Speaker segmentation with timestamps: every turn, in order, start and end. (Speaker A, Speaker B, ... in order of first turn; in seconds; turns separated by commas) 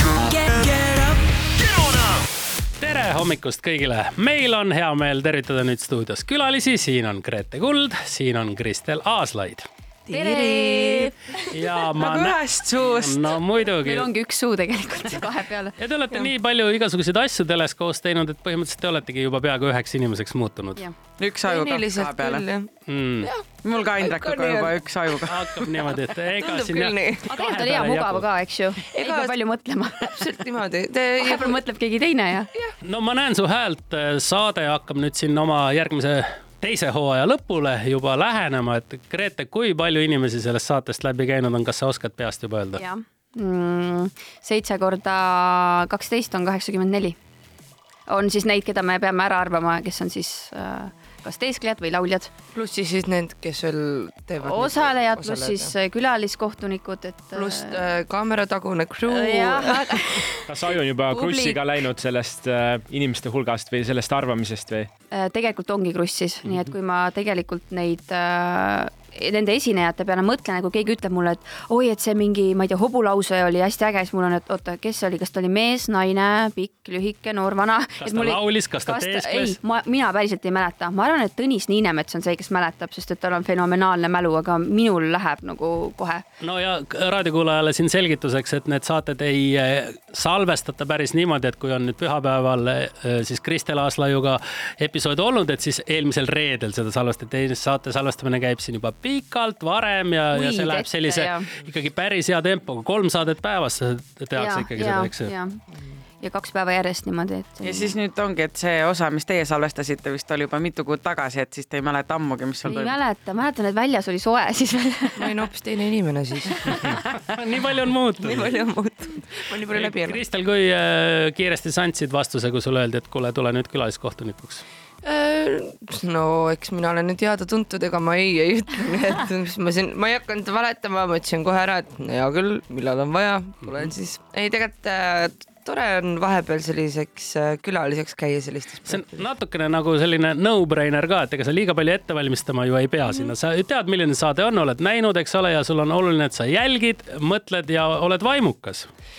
Speaker A: 2.8-9.7, Speaker B: 10.1-11.1, Speaker C: 10.1-11.1, Speaker A: 11.5-14.1, Speaker D: 11.9-13.3, Speaker C: 13.8-15.8, Speaker A: 15.8-20.8, Speaker D: 21.2-22.4, Speaker B: 21.4-22.7, Speaker A: 22.9-23.3, Speaker D: 23.6-25.9, Speaker B: 24.0-24.8, Speaker A: 25.3-28.3, Speaker B: 26.4-27.3, Speaker C: 27.3-30.1, Speaker B: 28.9-29.4, Speaker B: 30.0-31.6, Speaker C: 31.2-32.5, Speaker A: 32.9-42.8, Speaker C: 42.8-47.2, Speaker C: 48.1-52.3, Speaker B: 52.5-55.7, Speaker C: 54.4-57.8, Speaker B: 57.3-60.0, Speaker C: 59.1-61.6, Speaker E: 60.5-64.9, Speaker C: 65.1-86.2, Speaker A: 78.0-79.6, Speaker A: 86.4-105.3, Speaker C: 100.3-101.5, Speaker C: 104.4-105.6, Speaker C: 106.2-107.9, Speaker D: 107.6-113.0, Speaker C: 112.7-115.3, Speaker B: 115.2-116.8, Speaker A: 116.8-118.6, Speaker B: 118.2-120.2, Speaker A: 119.7-124.6, Speaker B: 125.0-139.2, Speaker A: 138.9-148.9